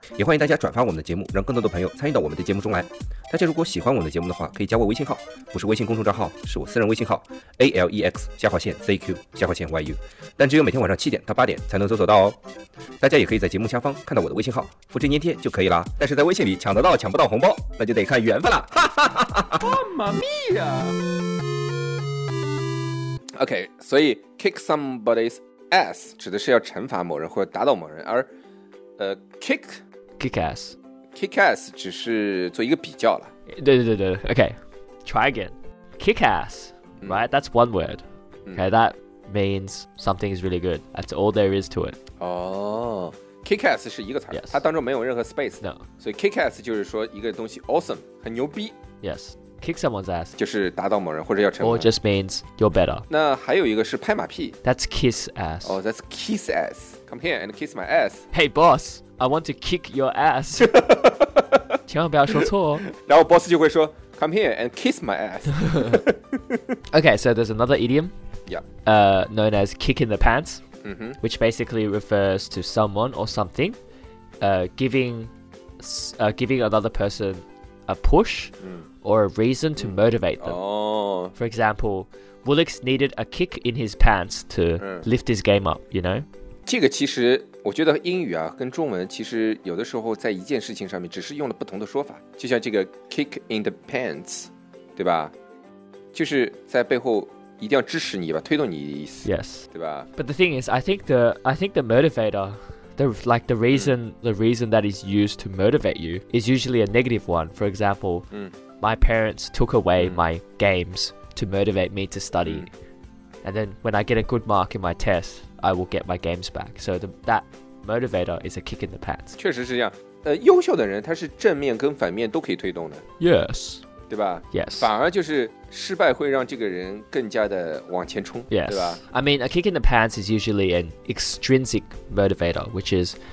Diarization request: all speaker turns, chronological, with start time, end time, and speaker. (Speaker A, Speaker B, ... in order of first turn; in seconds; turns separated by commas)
Speaker A: 0.2-12.2, Speaker B: 0.3-0.7, Speaker B: 3.3-4.8, Speaker B: 6.3-6.7, Speaker B: 7.6-9.9, Speaker B: 10.4-12.3, Speaker A: 13.0-18.4, Speaker B: 13.0-20.9, Speaker B: 23.4-28.3, Speaker B: 29.0-29.8, Speaker C: 30.2-30.7, Speaker B: 31.1-33.3, Speaker C: 33.5-42.0, Speaker B: 42.2-48.8, Speaker C: 44.3-44.6, Speaker C: 49.0-50.3, Speaker B: 50.4-51.9, Speaker C: 51.6-53.0, Speaker B: 53.1-54.6, Speaker C: 54.6-55.8, Speaker B: 55.6-58.2, Speaker C: 58.3-60.8, Speaker B: 60.6-61.6, Speaker C: 61.9-62.8, Speaker B: 62.3-66.6, Speaker C: 65.7-65.9, Speaker C: 66.9-68.1, Speaker C: 68.8-70.6, Speaker B: 70.8-71.2, Speaker C: 71.2-73.8, Speaker C: 74.4-78.5, Speaker C: 79.0-80.6, Speaker B: 79.8-81.3, Speaker C: 81.3-86.2, Speaker B: 84.8-85.1, Speaker B: 86.7-95.3, Speaker B: 96.1-100.1, Speaker C: 99.2-108.3, Speaker C: 108.8-112.7, Speaker C: 113.4-119.3, Speaker B: 119.3-123.0, Speaker C: 123.2-123.8, Speaker B: 124.1-129.0, Speaker C: 124.5-124.9, Speaker C: 128.5-133.2